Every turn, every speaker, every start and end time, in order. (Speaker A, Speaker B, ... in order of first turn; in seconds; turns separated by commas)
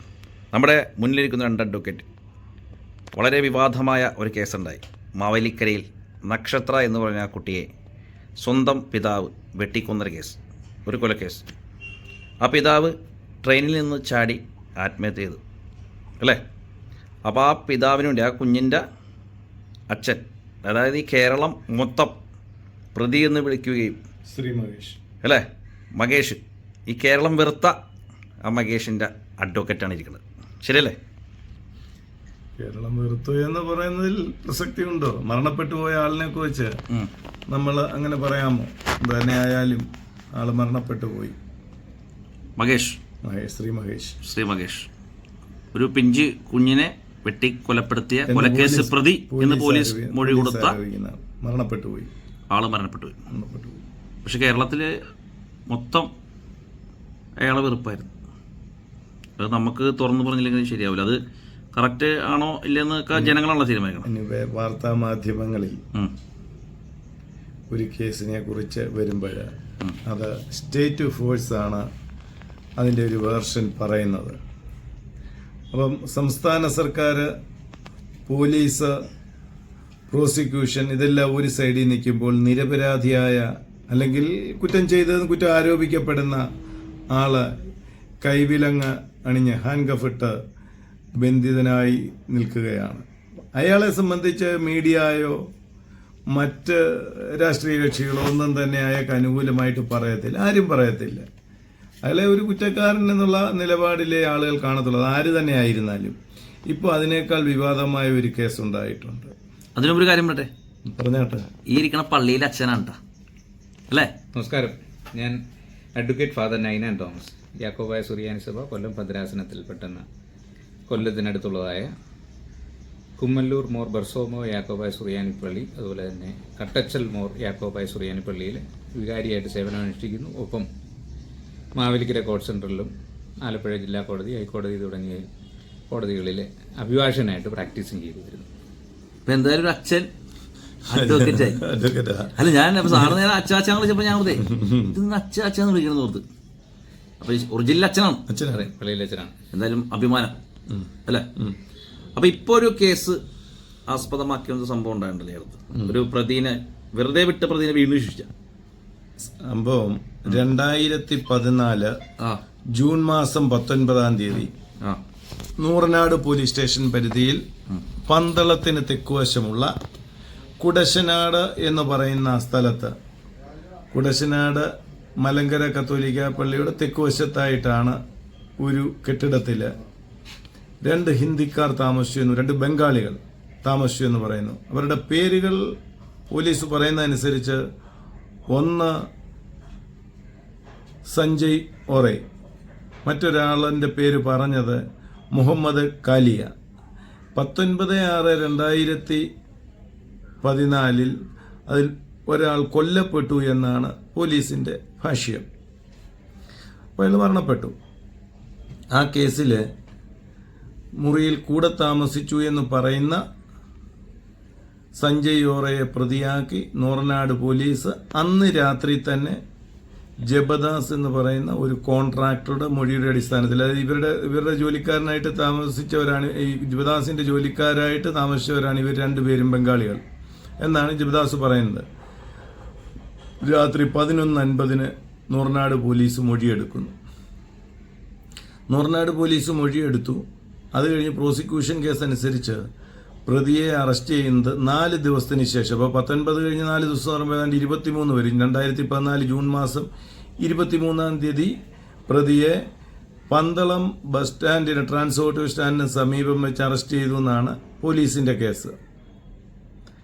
Speaker A: 0.5-2.0, Speaker A: 3.1-7.7, Speaker A: 8.4-11.5, Speaker A: 12.4-15.4, Speaker A: 17.2-18.8, Speaker A: 19.9-22.2, Speaker A: 22.9-24.0, Speaker B: 24.3-25.0, Speaker A: 26.0-27.8, Speaker A: 28.4-31.0, Speaker B: 32.6-36.8, Speaker B: 37.5-41.4, Speaker A: 42.6-43.0, Speaker B: 43.2-44.2, Speaker A: 44.2-44.9, Speaker A: 45.7-50.8, Speaker B: 48.3-52.1, Speaker A: 52.5-53.2, Speaker B: 53.3-53.8, Speaker A: 54.2-54.9, Speaker A: 55.7-56.1, Speaker A: 57.4-58.1, Speaker A: 59.4-61.2, Speaker A: 61.7-64.1, Speaker B: 64.0-65.8, Speaker B: 67.7-69.5, Speaker B: 70.1-71.9, Speaker B: 72.8-74.4, Speaker B: 75.7-77.3, Speaker B: 78.3-79.0, Speaker B: 80.1-86.4, Speaker B: 87.1-87.5, Speaker B: 88.2-90.4, Speaker B: 91.2-95.4, Speaker B: 96.3-101.3, Speaker B: 102.0-109.3, Speaker A: 109.8-110.5, Speaker B: 110.9-111.5, Speaker A: 111.7-113.0, Speaker C: 114.3-115.4, Speaker C: 116.0-120.0, Speaker C: 120.9-121.9, Speaker C: 123.2-130.7, Speaker C: 131.8-132.9, Speaker C: 133.4-135.3, Speaker C: 135.9-138.5, Speaker A: 139.3-140.1, Speaker A: 140.9-141.6, Speaker B: 140.9-143.2, Speaker A: 142.4-146.2, Speaker B: 144.4-144.9, Speaker A: 147.2-148.2, Speaker B: 148.3-148.7, Speaker C: 148.5-149.3, Speaker A: 149.5-150.3, Speaker B: 150.7-151.6, Speaker A: 152.2-153.2, Speaker A: 153.9-158.3, Speaker B: 159.2-162.0, Speaker B: 162.7-164.5, Speaker B: 165.6-167.4, Speaker B: 168.1-169.7, Speaker B: 170.6-172.9, Speaker B: 173.9-178.0, Speaker B: 178.6-179.7, Speaker B: 180.8-185.7, Speaker B: 186.3-187.6, Speaker B: 188.5-189.0, Speaker B: 191.1-192.2, Speaker B: 193.1-194.8, Speaker B: 195.3-196.5, Speaker B: 197.3-199.2, Speaker B: 200.4-201.1, Speaker B: 201.7-205.5, Speaker B: 207.0-207.8, Speaker B: 208.9-209.7, Speaker B: 211.0-213.2, Speaker B: 215.0-219.4, Speaker B: 220.2-230.0, Speaker B: 230.6-231.8, Speaker B: 233.4-236.9, Speaker B: 238.7-242.6, Speaker B: 243.3-249.9, Speaker B: 250.4-251.6, Speaker B: 252.1-252.6, Speaker B: 253.3-258.8